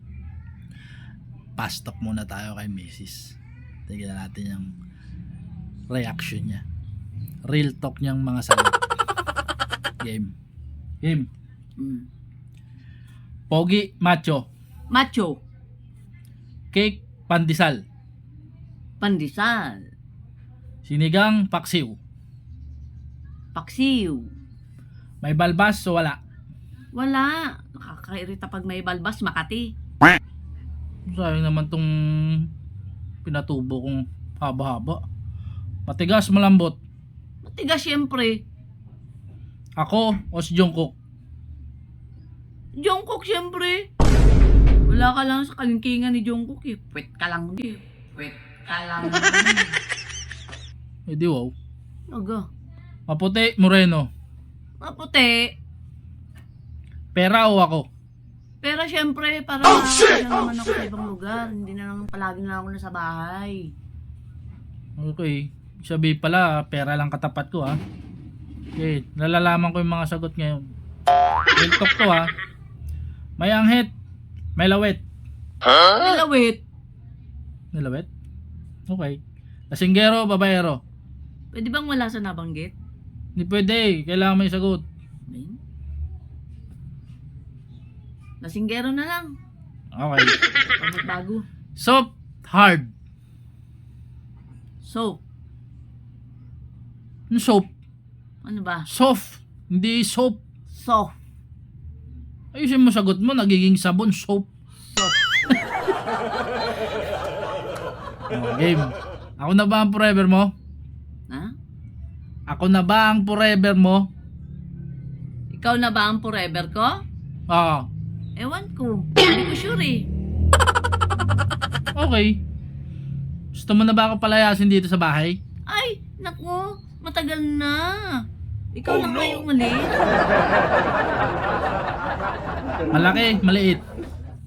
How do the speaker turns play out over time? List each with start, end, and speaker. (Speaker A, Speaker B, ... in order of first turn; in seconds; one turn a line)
Speaker A: 1.6-4.7
Speaker A: 5.9-6.6
Speaker A: 7.5-8.8
Speaker A: 10.0-10.3
Speaker A: 11.0-11.3
Speaker B: 11.8-12.1
Speaker A: 13.5-14.5
Speaker B: 14.9-15.4
Speaker A: 16.7-17.8
Speaker B: 19.0-19.8
Speaker A: 20.8-22.0
Speaker B: 23.5-24.2
Speaker A: 25.2-26.2
Speaker B: 26.9-29.7
Speaker A: 31.1-32.5
Speaker A: 33.2-35.0
Speaker A: 35.9-36.8
Speaker B: 37.4-38.4
Speaker A: 39.8-40.9
Speaker B: 42.8-43.9
Speaker B: 44.9-49.7
Speaker A: 51.1-51.5
Speaker B: 52.1-52.5
Speaker A: 53.1-54.1
Speaker B: 54.8-55.5
Speaker A: 57.1-57.9
Speaker B: 58.6-63.7
Speaker A: 65.0-67.8
Speaker A: 68.8-70.7
Speaker A: 71.6-72.3
Speaker A: 73.4-73.9
Speaker A: 74.5-75.0
Speaker B: 75.9-76.6
Speaker A: 77.7-78.1
Speaker A: 78.9-79.2
Speaker A: 79.7-80.8
Speaker B: 81.5-82.7
Speaker A: 83.3-84.8
Speaker B: 85.3-85.6
Speaker B: 88.4-89.3
Speaker A: 89.9-90.4
Speaker B: 90.7-91.5
Speaker A: 91.8-92.9
Speaker B: 94.8-95.2
Speaker A: 97.3-97.7
Speaker B: 98.4-98.9
Speaker A: 98.9-100.4
Speaker B: 100.7-101.1
Speaker A: 102.5-104.5
Speaker A: 108.3-110.5
Speaker A: 112.5-114.1
Speaker B: 115.5-117.0
Speaker A: 117.5-117.9
Speaker B: 118.4-120.1
Speaker A: 121.9-122.4
Speaker A: 123.5-125.4
Speaker B: 125.7-128.2
Speaker B: 128.7-130.0
Speaker A: 132.9-133.8